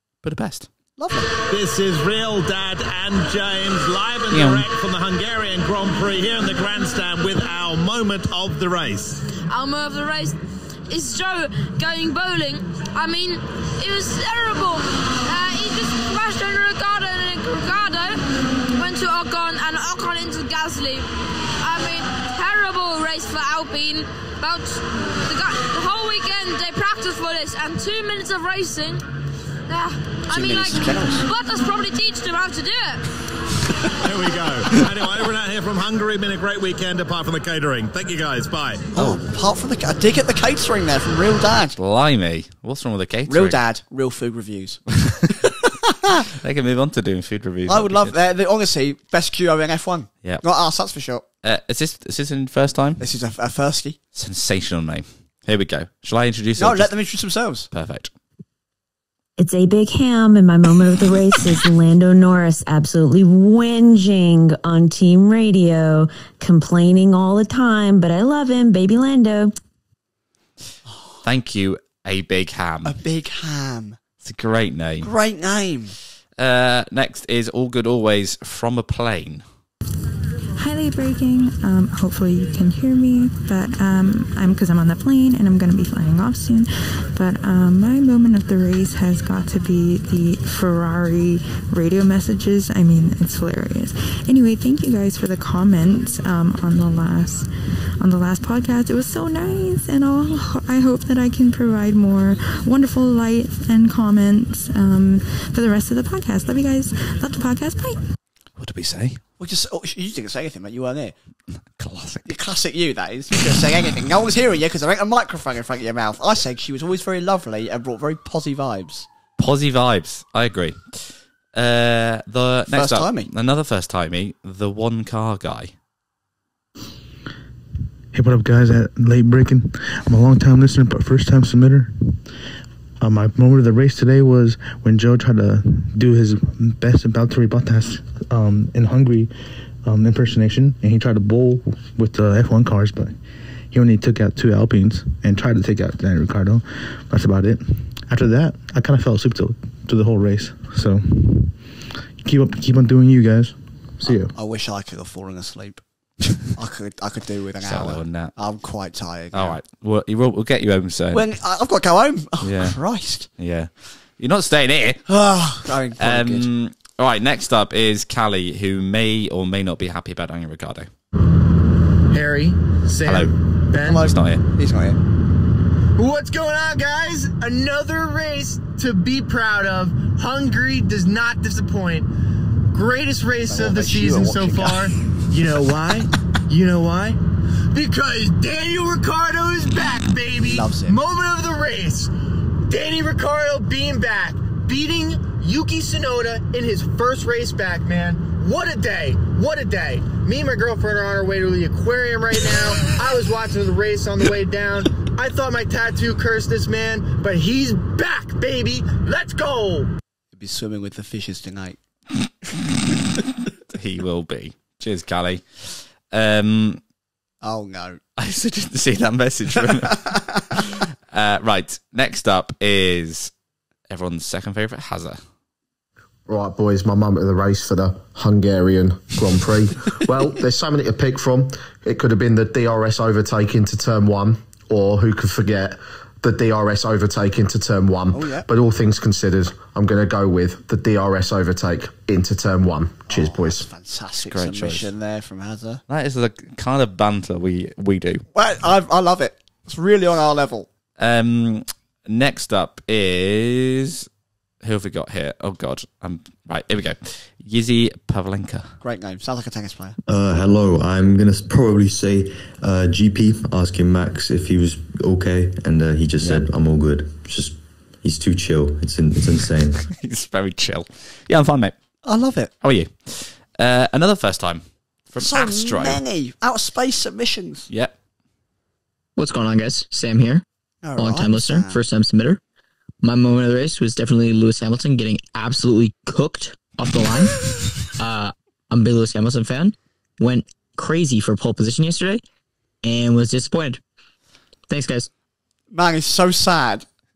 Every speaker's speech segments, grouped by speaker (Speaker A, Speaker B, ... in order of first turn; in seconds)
Speaker A: 0.2-0.7, 4.3-4.7, 41.8-43.6, 45.0-45.3, 46.3-48.2, 51.4-53.0, 54.1-56.9, 57.7-58.1, 71.2-73.0, 74.2-75.1, 76.4-79.4, 108.6-109.2, 111.5-112.4, 119.4-125.7, 157.6-158.3, 159.3-161.3, 162.4-165.0, 165.9-170.9, 173.0-173.4, 173.9-174.4, 213.7-216.8, 218.2-223.3, 223.9-225.2, 244.3-244.9, 245.9-248.2, 251.0-254.1, 254.6-258.8, 269.9-271.8, 272.6-276.0
Speaker B: 1.0-1.3, 30.3-31.3, 38.9-41.8, 43.3-44.8, 45.4-46.3, 47.7-51.2, 53.0-54.0, 56.6-57.7, 72.8-74.0, 75.0-76.0, 109.4-111.1, 112.3-119.1, 122.7-123.3, 154.0-155.8, 156.5-159.6, 161.1-163.3, 165.1-166.5, 173.8-175.0, 183.4-184.9, 190.4-191.0, 210.3-211.8, 217.4-218.0, 219.9-220.6, 238.1-238.5, 243.1-245.8, 248.3-250.7, 258.8-260.0, 272.1-272.5, 275.2-277.7, 280.8-281.8, 295.7-296.9
Speaker C: 1.5-9.2, 34.0-38.9
Speaker D: 9.5-29.0, 29.7-33.1
Speaker E: 59.4-69.5
Speaker F: 80.6-97.5, 98.0-108.0
Speaker G: 128.1-132.2, 133.0-139.3, 139.8-143.2, 143.7-151.6, 152.2-154.3
Speaker H: 172.1-174.1, 176.0-182.1, 182.7-187.2, 187.7-192.1, 192.6-209.9
Speaker I: 226.3-243.7
Speaker J: 260.1-269.9
Speaker K: 279.2-280.4, 281.0-282.4, 283.0-292.2, 292.8-293.8, 294.7-295.1